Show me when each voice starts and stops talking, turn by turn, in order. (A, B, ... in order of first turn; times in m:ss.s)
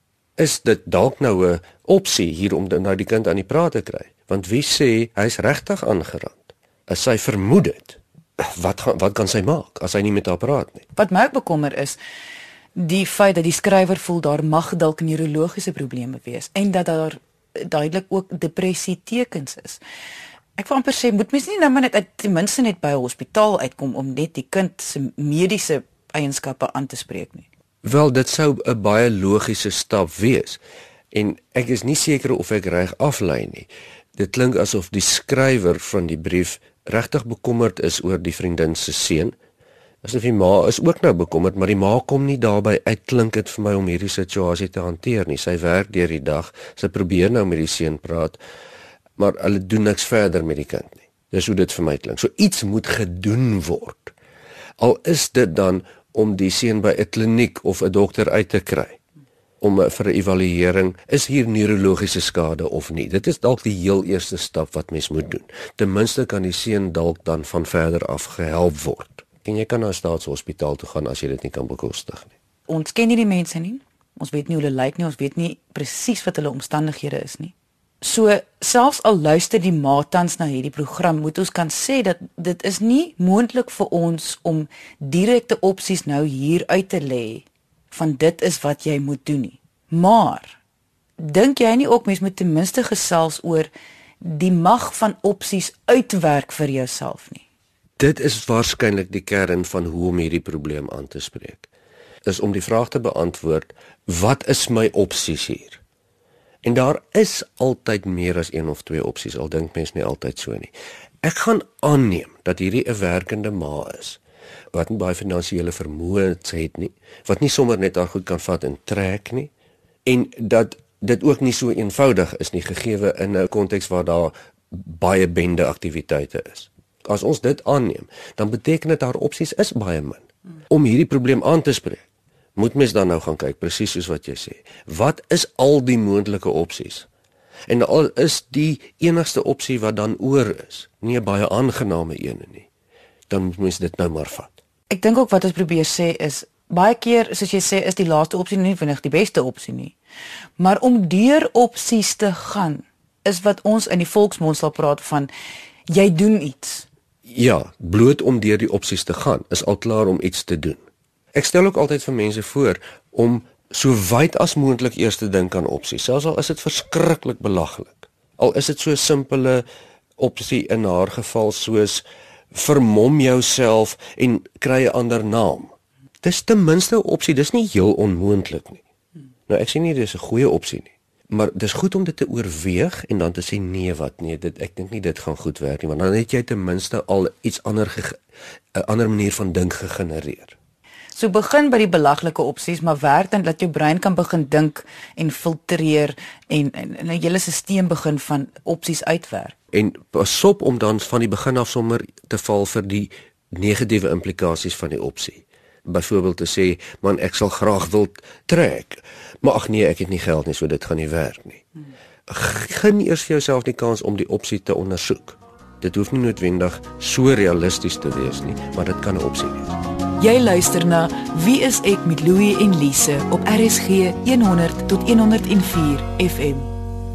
0:00.4-0:10.8 A
0:10.9-0:12.0 B
0:12.8-0:19.8 B
0:20.6-0:27.4 B
0:27.8-0:30.6 A
0:31.1-0:39.3 A
0:40.0-0:48.4 A
0:49.2-0:54.1 A
0:54.8-0:59.0 A
0:59.6-1:12.3 A
1:12.7-1:30.6 B
1:31.2-1:33.7 B
1:34.2-1:37.4 B
1:38.0-1:41.7 A
1:42.2-1:45.8 A
1:46.6-1:54.2 A
1:54.7-1:59.5 A
2:00.0-2:17.1 A
2:17.7-2:22.7 A
2:23.3-2:24.5 A
2:24.9-2:29.9 B
2:30.6-2:35.3 B
2:35.9-2:36.8 B
2:37.2-2:40.8 A
2:41.3-2:49.6 A
2:50.2-2:58.8 A
2:59.5-3:08.2 A
3:08.7-3:10.6 A
3:11.1-3:19.5 B
3:19.7-3:31.6 A
3:32.3-3:39.8 A
3:40.2-3:46.7 B